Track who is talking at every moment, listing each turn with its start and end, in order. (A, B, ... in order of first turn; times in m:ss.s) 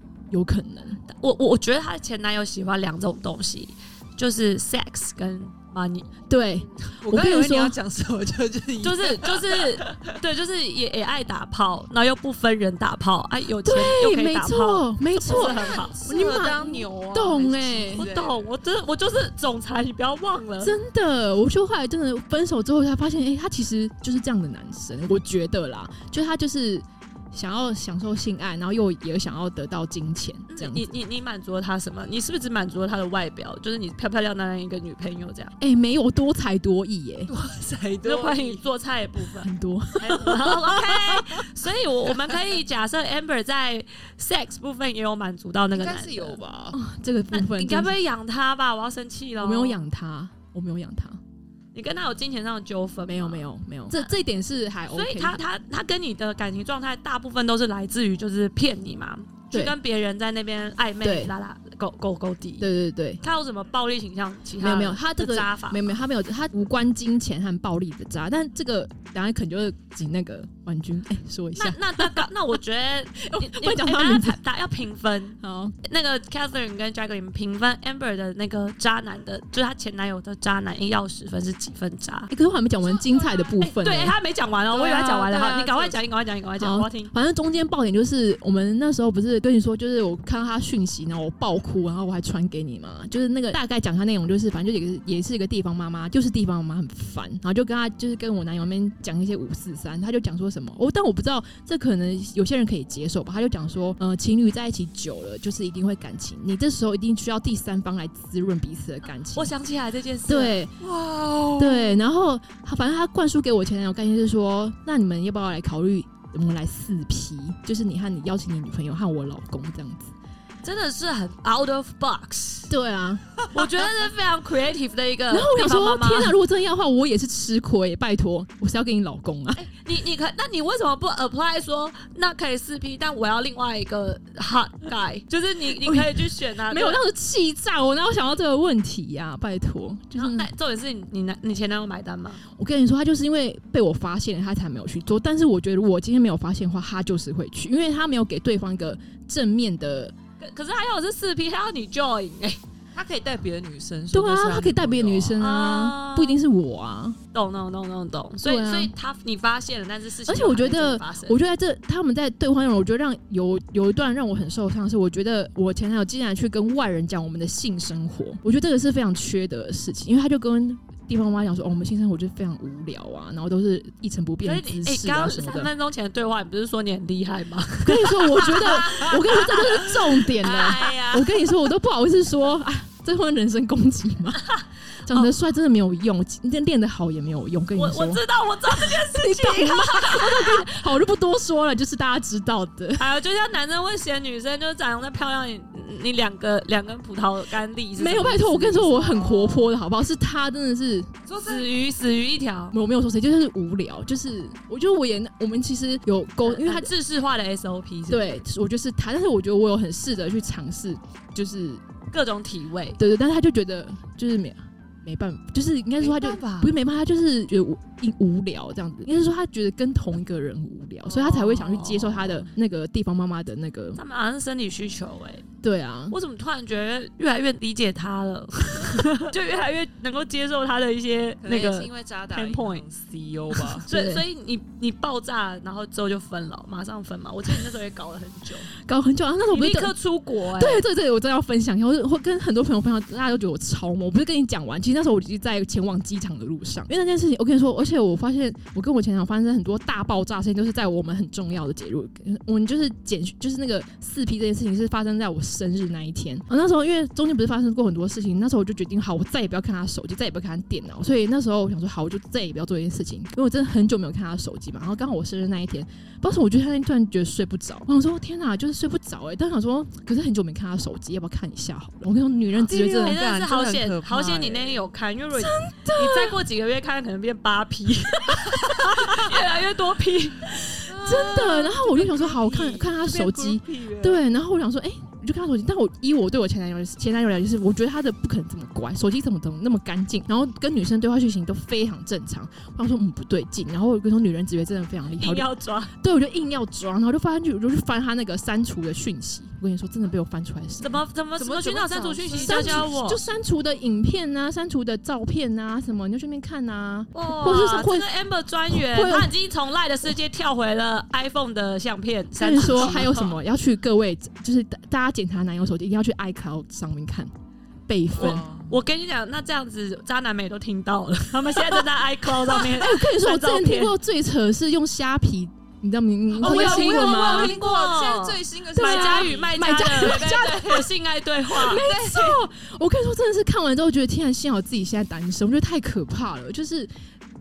0:00.3-0:01.0 A
0:01.1-0:06.1 B
0:06.3-0:07.8 A
0:07.0-0:10.0 C
0:08.8-0:16.0 B
0:13.6-0:18.0 A
0:15.2-0:18.4 C
0:17.9-0:20.7 B
0:20.6-0:30.9 A
0:30.5-0:35.6 B
0:35.6-0:37.3 A
0:37.3-0:38.7 C
0:38.0-0:46.4 B
0:39.4-0:40.6 A
0:40.3-0:41.2 C
0:45.7-0:46.8 C
0:46.7-0:48.0 A
0:47.3-0:49.8 B
0:49.4-0:51.2 A
0:51.7-0:54.1 B
0:53.0-0:55.4 A
0:54.9-1:02.7 B
1:01.0-1:01.3 A
1:02.6-1:03.2 A
1:03.2-1:05.9 B
1:04.6-1:12.3 A
1:11.6-1:22.3 B
1:13.2-1:14.4 A
1:15.4-1:15.8 A
1:22.3-1:24.2 A
1:22.8-1:23.5 C
1:23.6-1:27.1 B
1:24.7-1:26.0 C
1:24.8-1:25.2 A
1:26.6-1:49.5 A
1:49.3-1:50.6 B
1:50.3-1:50.7 A
1:50.8-1:52.0 C
1:51.6-2:00.1 A
2:00.6-2:02.7 B
2:02.7-2:03.4 A
2:03.5-2:06.3 B
2:05.3-2:09.7 A
2:09.6-2:17.0 B
2:15.7-2:20.5 A
2:20.2-2:22.4 B
2:22.5-2:30.1 A
2:30.4-2:32.6 B
2:32.9-2:35.4 C
2:34.1-2:37.2 A
2:35.4-2:36.4 B
2:37.3-2:41.4 B
2:38.4-2:38.9 A
2:40.2-2:55.7 A
2:54.4-3:01.3 B
2:57.8-3:04.4 A
3:04.5-3:05.3 B
3:05.0-3:13.1 A
3:07.8-3:10.7 B
3:13.0-3:19.5 B
3:18.0-3:21.1 A
3:21.2-3:21.7 C
3:21.4-3:22.8 B
3:22.7-3:26.9 A
3:26.4-3:28.4 B
3:28.1-3:31.8 A
3:32.1-3:33.0 B
3:33.0-3:44.0 A
3:36.0-3:36.7 C
3:41.1-3:42.5 B
3:43.9-3:45.4 B
3:45.6-3:46.2 A
3:46.1-3:52.8 B
3:51.4-3:53.8 C
3:53.8-3:54.2 A
3:53.9-3:58.7 B
3:58.8-4:00.0 A
3:59.5-4:00.8 B
4:00.5-4:33.2 A
4:32.6-4:34.8 C
4:32.7-4:40.8 B
4:35.3-4:36.4 A
4:40.9-4:44.2 C
4:40.9-5:08.1 A
4:55.2-4:55.9 B
5:00.8-5:03.2 B
5:02.2-5:02.9 C
5:07.1-5:13.3 B
5:08.7-5:09.3 A
5:12.4-5:17.3 A
5:17.9-5:18.4 A
5:18.2-5:18.7 C
5:18.2-5:23.9 B
5:21.5-5:21.8 A
5:22.4-5:27.6 A
5:26.4-5:30.9 C
5:26.4-5:31.8 B
5:28.8-5:30.8 A
5:31.5-5:36.9 A
5:31.6-5:32.4 C